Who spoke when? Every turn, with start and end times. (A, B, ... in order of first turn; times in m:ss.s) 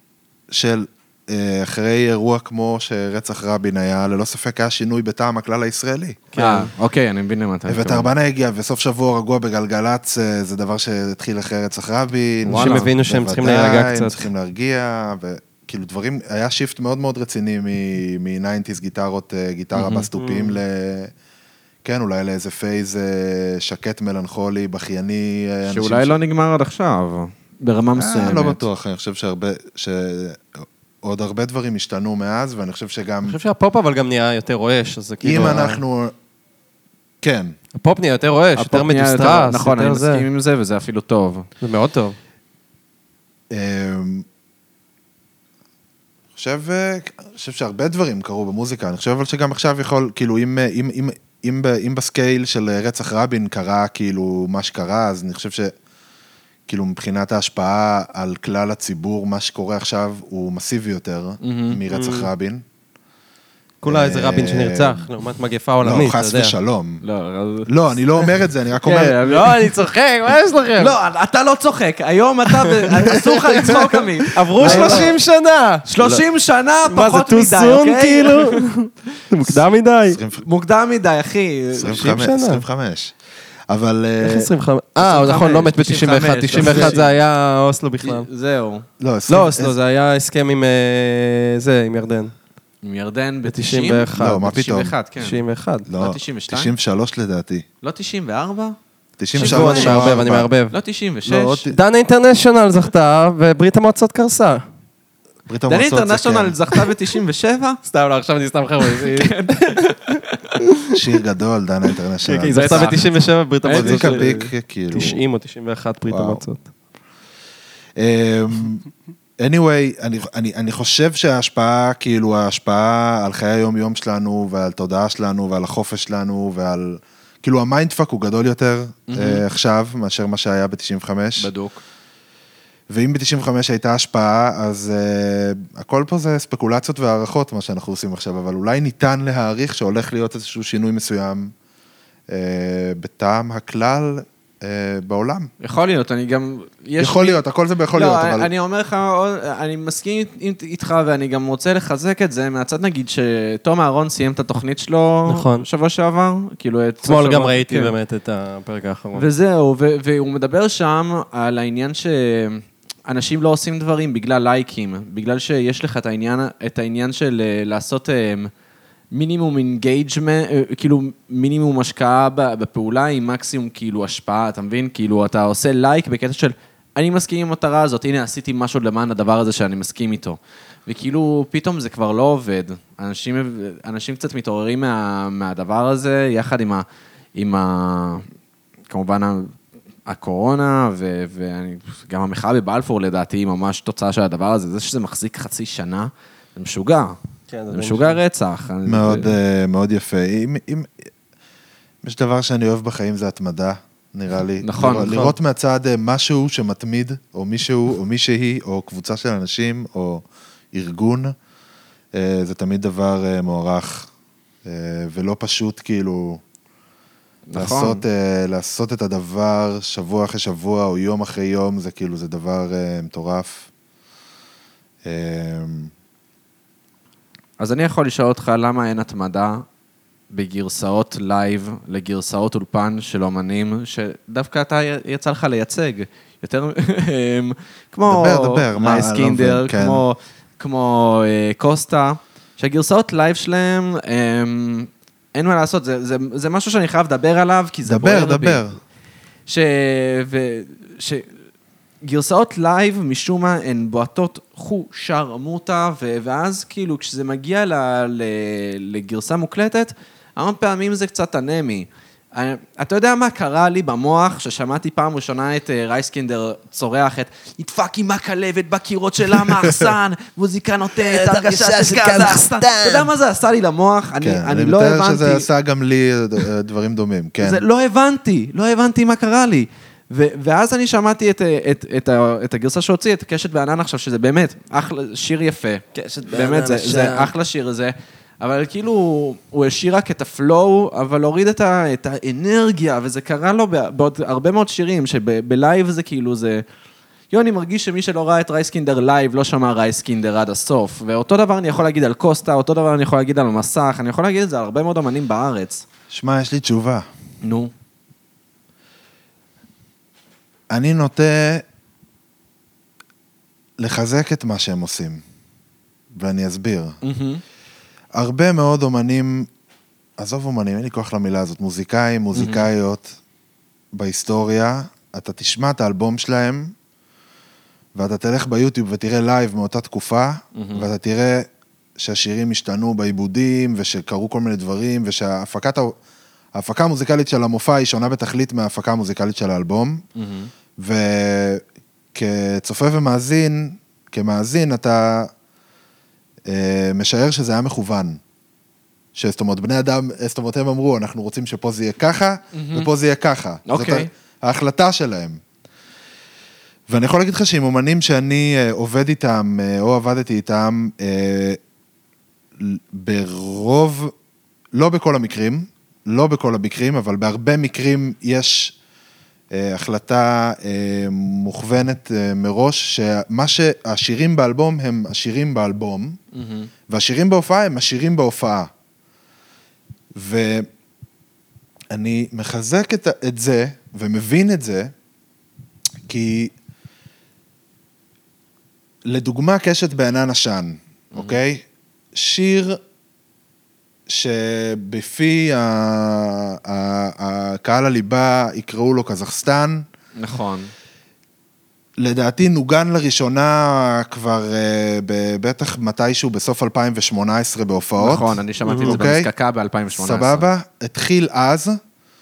0:00.5-0:06.2 A
0:06.3-0:06.7 B
0:06.4-0:08.1 C
0:07.7-0:21.1 A
0:12.4-0:12.9 C
0:12.5-0:14.2 B
0:19.7-0:20.1 C
0:20.2-0:20.6 B
0:21.8-0:26.2 A
0:25.6-0:28.6 C
0:28.0-0:33.4 A
0:33.2-0:35.8 B
0:35.2-0:36.1 A
0:35.4-0:35.6 C
0:37.2-0:37.6 A
0:37.7-0:40.2 B
0:38.6-0:41.5 C
0:41.6-0:42.2 B
0:43.5-0:44.2 A
0:46.4-0:55.7 A
0:56.7-1:02.6 A
1:01.4-1:01.8 C
1:01.9-1:02.3 B
1:03.8-1:06.5 B
1:03.8-1:05.1 A
1:05.8-1:07.0 A
1:07.0-1:08.3 C
1:07.7-1:09.2 A
1:08.8-1:09.7 C
1:09.1-1:10.9 B
1:10.8-1:15.2 C
1:12.7-1:15.8 B
1:14.5-1:15.2 A
1:15.8-1:18.6 C
1:16.8-1:20.2 B
1:20.1-1:20.4 A
1:20.4-1:22.2 C
1:21.7-1:23.1 A
1:21.9-1:22.6 B
1:23.7-1:24.5 A
1:24.2-1:28.3 B
1:25.0-1:27.1 C
1:26.5-1:27.0 A
1:28.0-1:28.8 C
1:29.0-1:29.8 A
1:29.3-1:32.3 B
1:32.8-1:35.4 C
1:33.4-1:34.5 B
1:34.1-1:34.9 A
1:35.2-1:35.8 B
1:35.8-1:37.6 A
1:36.0-1:36.7 C
1:37.8-1:38.8 C
1:39.2-1:40.5 A
1:39.3-1:40.2 C
1:39.4-1:40.8 B
1:40.7-1:41.6 C
1:41.2-1:41.8 A
1:41.7-1:44.6 B
1:45.5-1:46.6 A
1:45.7-1:47.8 C
1:47.8-1:50.9 B
1:48.8-1:50.4 C
1:50.9-1:52.9 A
1:52.2-1:56.6 B
1:52.5-1:53.1 C
1:53.6-1:54.3 C
1:53.7-1:55.2 A
1:56.1-1:56.4 A
1:58.0-1:58.8 A
1:59.4-2:11.5 A
2:09.1-2:09.4 C
2:11.4-2:11.8 C
2:12.9-2:21.5 A
2:22.3-2:25.5 A
2:25.6-2:27.4 C
2:27.0-2:28.5 A
2:27.9-2:37.9 C
2:35.3-2:35.6 B
2:37.0-2:39.2 B
2:39.1-2:48.5 C
2:49.1-3:06.8 C
3:07.4-3:08.2 C
3:08.9-3:09.6 C
3:10.1-3:17.2 C
3:17.5-3:18.2 B
3:17.7-3:19.4 C
3:18.8-3:21.1 A
3:22.0-3:31.3 A
3:24.6-3:25.2 C
3:25.0-3:25.3 B
3:32.1-3:34.1 A
3:34.6-3:36.4 A
3:37.5-3:38.0 C
3:37.6-3:43.7 A
3:45.0-3:45.9 A
3:47.6-3:49.6 C
3:50.3-4:08.6 C
3:58.1-4:00.0 A
4:07.8-4:08.8 A
4:09.5-4:11.3 C
4:12.0-4:35.5 C
4:31.0-4:33.1 B
4:34.2-4:37.6 A
4:37.4-4:56.6 C
4:45.9-4:47.3 B
4:57.3-5:05.8 C
5:06.1-5:07.1 A
5:07.4-5:07.7 C
5:10.7-5:11.6 A
5:13.8-5:15.2 A
5:16.1-5:17.0 A
5:17.0-5:17.4 C
5:18.1-5:19.5 A
5:20.2-5:23.2 A
5:22.3-5:22.6 C
5:23.9-5:26.7 A
5:27.9-5:35.9 A
5:30.5-5:30.9 C
5:36.5-5:40.0 A
5:40.2-5:40.5 C
5:40.8-5:45.3 A
5:46.4-5:48.2 A
5:49.1-5:55.4 A
5:52.5-5:52.9 C
5:53.6-5:54.1 C
5:56.9-6:01.6 A
6:02.6-6:04.1 A
6:04.7-6:08.8 A
6:09.5-6:16.2 A
6:16.3-6:16.7 C
6:16.9-6:18.7 A
6:20.2-6:20.7 A
6:21.9-6:24.9 A
6:26.1-6:26.5 A
6:29.1-6:32.8 A
6:34.1-6:39.8 A
6:40.2-6:40.7 C
6:42.0-6:48.3 A
6:48.0-6:50.5 C
6:48.6-6:48.9 B
6:48.8-6:49.3 A
6:49.9-6:51.8 A